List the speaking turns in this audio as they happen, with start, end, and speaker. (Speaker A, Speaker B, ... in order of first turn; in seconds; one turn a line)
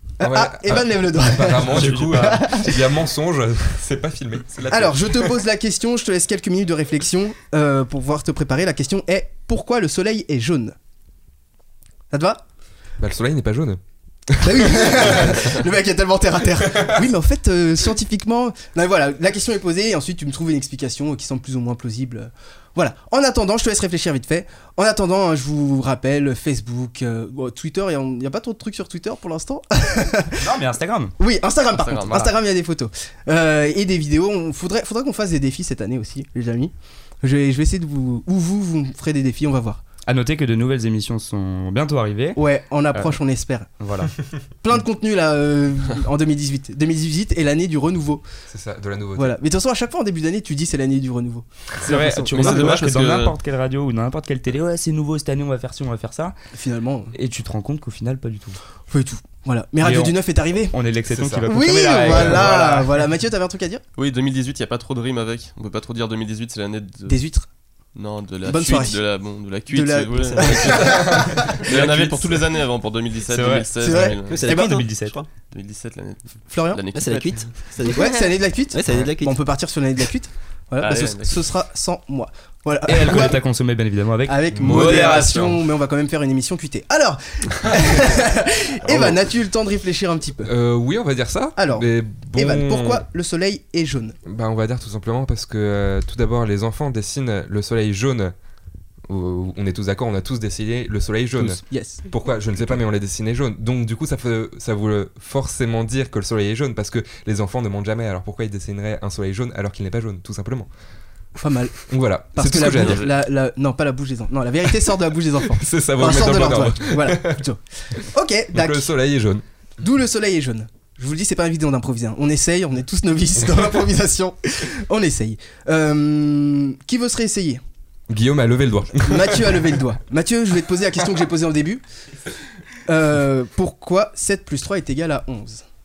Speaker A: 0.2-2.8
Speaker B: 0.2-5.4
Speaker C: 1.7-2.5
Speaker A: 4.7-10.8
Speaker A: 12.1-12.4
Speaker B: 13.0-15.5
Speaker A: 14.4-30.5
Speaker B: 16.8-17.0
Speaker C: 30.4-31.1
Speaker A: 31.2-39.8
Speaker D: 31.8-32.1
Speaker C: 32.1-32.3
Speaker C: 40.1-42.4
Speaker A: 42.4-43.7
Speaker C: 43.8-44.1
Speaker A: 44.6-48.2
Speaker B: 48.5-49.4
Speaker A: 49.2-52.7
Speaker C: 51.8-56.4
Speaker D: 52.3-53.4
Speaker A: 56.5-57.1
Speaker C: 57.1-58.6
Speaker A: 58.9-60.7
Speaker C: 59.8-60.2
Speaker C: 60.7-62.8
Speaker B: 61.1-61.5
Speaker A: 61.5-63.8
Speaker D: 62.1-62.9
Speaker D: 64.0-67.2
Speaker A: 67.1-67.5
Speaker D: 68.0-74.5
Speaker A: 68.5-69.0
Speaker A: 69.7-72.5
Speaker E: 70.2-70.8
Speaker B: 70.9-71.3
Speaker C: 73.3-73.7
Speaker A: 73.8-74.8
Speaker E: 74.3-75.3
Speaker C: 74.4-75.2
Speaker D: 75.5-77.5
Speaker A: 76.5-76.8
Speaker E: 76.9-79.4
Speaker A: 77.9-83.4
Speaker D: 80.8-81.5
Speaker C: 82.9-85.6
Speaker A: 84.3-90.5
Speaker B: 84.5-85.6
Speaker B: 88.8-89.2
Speaker B: 90.4-93.0
Speaker A: 91.6-94.2
Speaker B: 94.3-98.3
Speaker B: 99.1-110.7
Speaker A: 101.4-102.0
Speaker A: 111.4-111.8
Speaker B: 111.9-113.1
Speaker A: 112.3-118.9
Speaker D: 112.8-113.1
Speaker B: 115.5-117.4
Speaker B: 118.5-119.4
Speaker A: 119.8-127.6
Speaker B: 128.1-129.8
Speaker A: 129.0-131.8
Speaker A: 132.9-135.6